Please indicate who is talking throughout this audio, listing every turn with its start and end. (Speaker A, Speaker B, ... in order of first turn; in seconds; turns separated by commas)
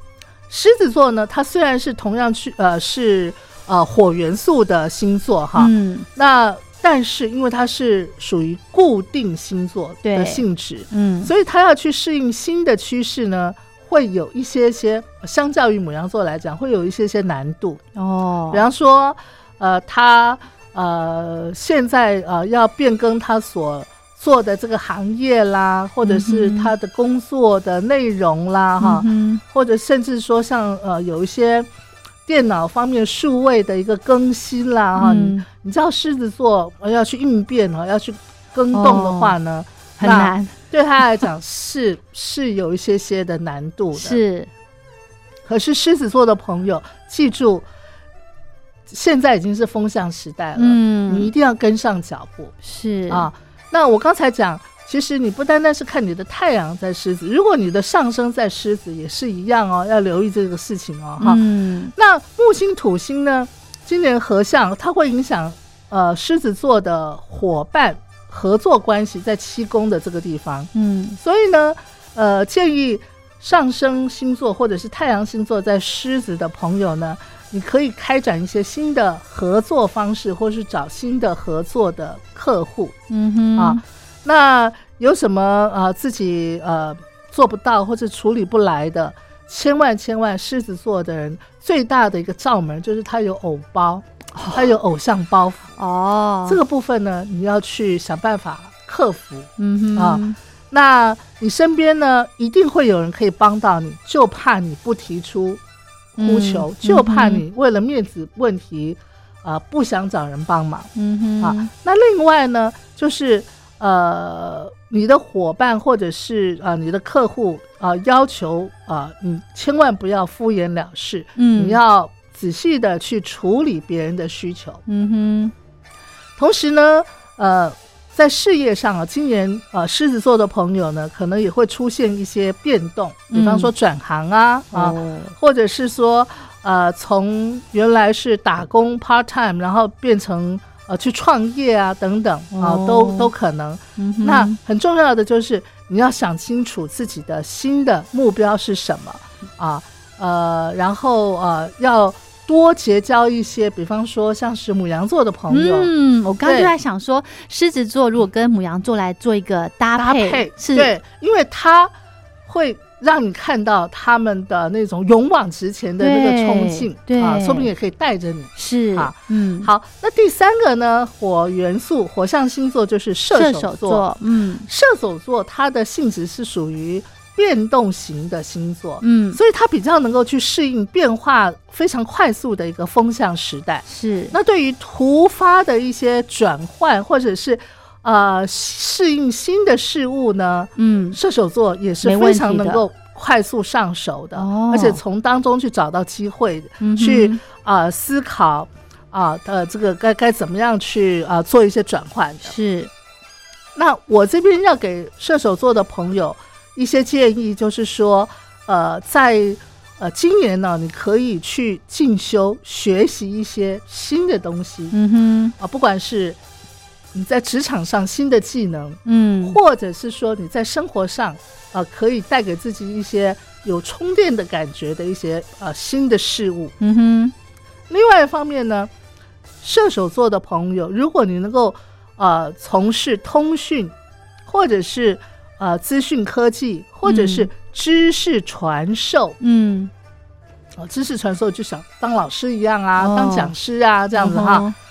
Speaker A: 0.5-17.8, Speaker B: 5.5-6.1, Speaker B: 10.0-11.3, Speaker B: 17.9-18.6, Speaker A: 18.5-31.7, Speaker B: 26.0-26.7, Speaker B: 28.8-29.4, Speaker A: 32.2-44.2, Speaker B: 35.0-35.5, Speaker B: 38.7-39.4, Speaker B: 40.0-40.5, Speaker B: 43.9-44.5, Speaker A: 45.4-47.7, Speaker A: 48.9-52.5, Speaker B: 50.6-51.3, Speaker B: 52.6-53.3, Speaker A: 53.1-83.0, Speaker B: 61.2-61.9, Speaker B: 70.7-71.2, Speaker B: 83.1-83.8, Speaker A: 83.5-95.8, Speaker B: 94.3-94.7, Speaker B: 95.8-96.6, Speaker A: 96.5-105.6, Speaker B: 99.6-100.4, Speaker A: 106.2-124.8, Speaker B: 106.2-107.4, Speaker B: 110.9-111.7, Speaker B: 121.4-121.8, Speaker B: 124.9-125.5, Speaker A: 126.4-155.9, Speaker B: 133.3-133.7, Speaker B: 134.7-135.3, Speaker B: 142.5-143.3, Speaker B: 144.0-144.6, Speaker B: 155.5-160.9, Speaker A: 156.4-156.7, Speaker A: 159.9-161.9, Speaker A: 162.4-174.1, Speaker B: 166.0-167.7, Speaker B: 168.6-169.7, Speaker B: 173.3-174.7, Speaker A: 174.7-202.5, Speaker B: 179.0-179.4, Speaker B: 183.8-184.3, Speaker B: 190.8-191.2, Speaker B: 192.0-192.8, Speaker B: 194.3-195.0, Speaker B: 196.8-197.4, Speaker B: 202.4-202.9, Speaker A: 203.7-214.9, Speaker B: 214.9-215.5, Speaker A: 215.6-216.4, Speaker A: 217.1-226.7, Speaker B: 219.0-219.6, Speaker B: 226.8-227.3, Speaker A: 227.9-228.9, Speaker A: 229.6-233.9, Speaker A: 234.5-239.4, Speaker B: 237.0-237.5, Speaker B: 239.4-239.9, Speaker A: 240.8-244.7, Speaker B: 243.0-243.5, Speaker B: 244.1-244.7